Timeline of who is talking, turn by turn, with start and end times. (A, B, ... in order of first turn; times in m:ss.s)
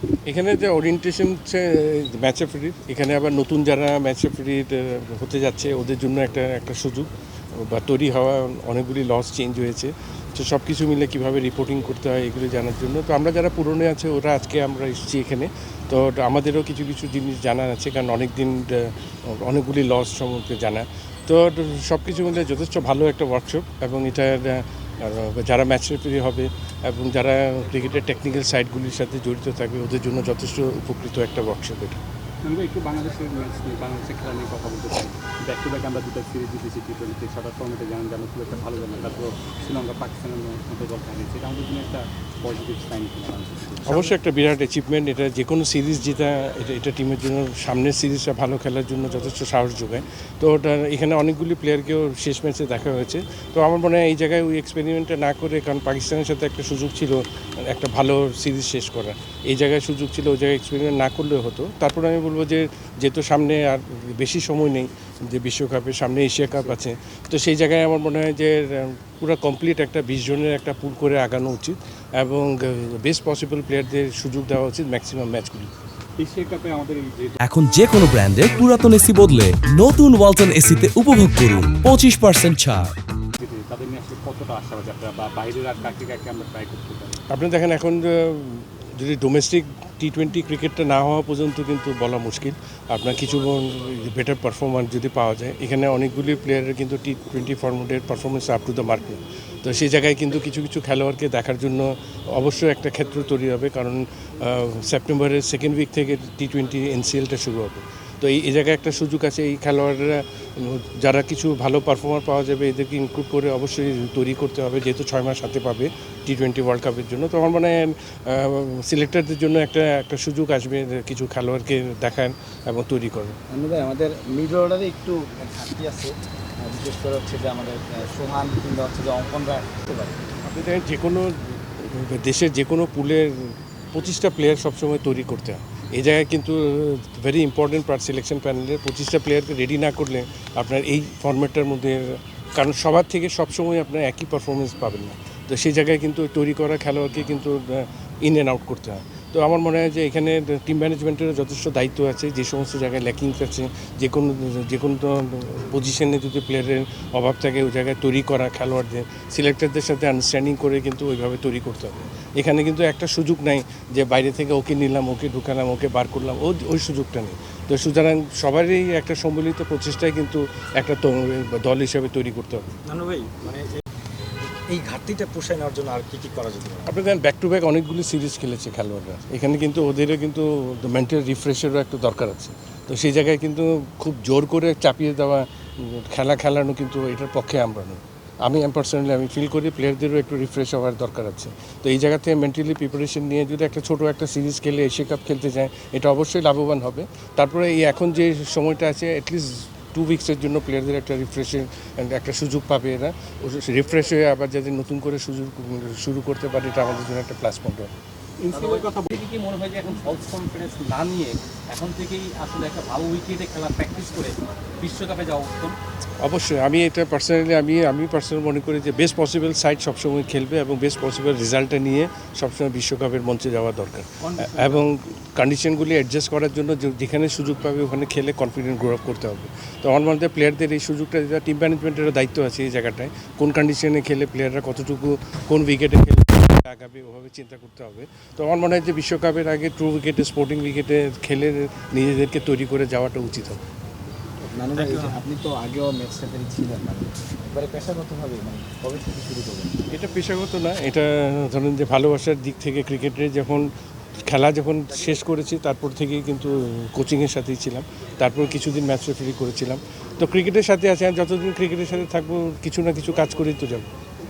0:00.3-0:32.0 A
0:32.4-0:44.0 B
0:43.8-1:15.8 A
1:16.2-1:17.4 B
1:17.4-1:22.9 C
1:23.4-1:27.2 B
1:27.3-2:03.4 A
2:03.5-2:10.2 D
2:10.4-2:52.7 A
2:52.8-2:53.7 D
2:54.6-2:57.0 D
2:56.9-3:27.9 A
3:28.4-3:29.2 B
3:28.6-3:35.7 E
3:36.2-4:03.6 A
3:44.5-3:44.8 C
4:04.5-4:09.9 D
4:09.9-4:23.9 A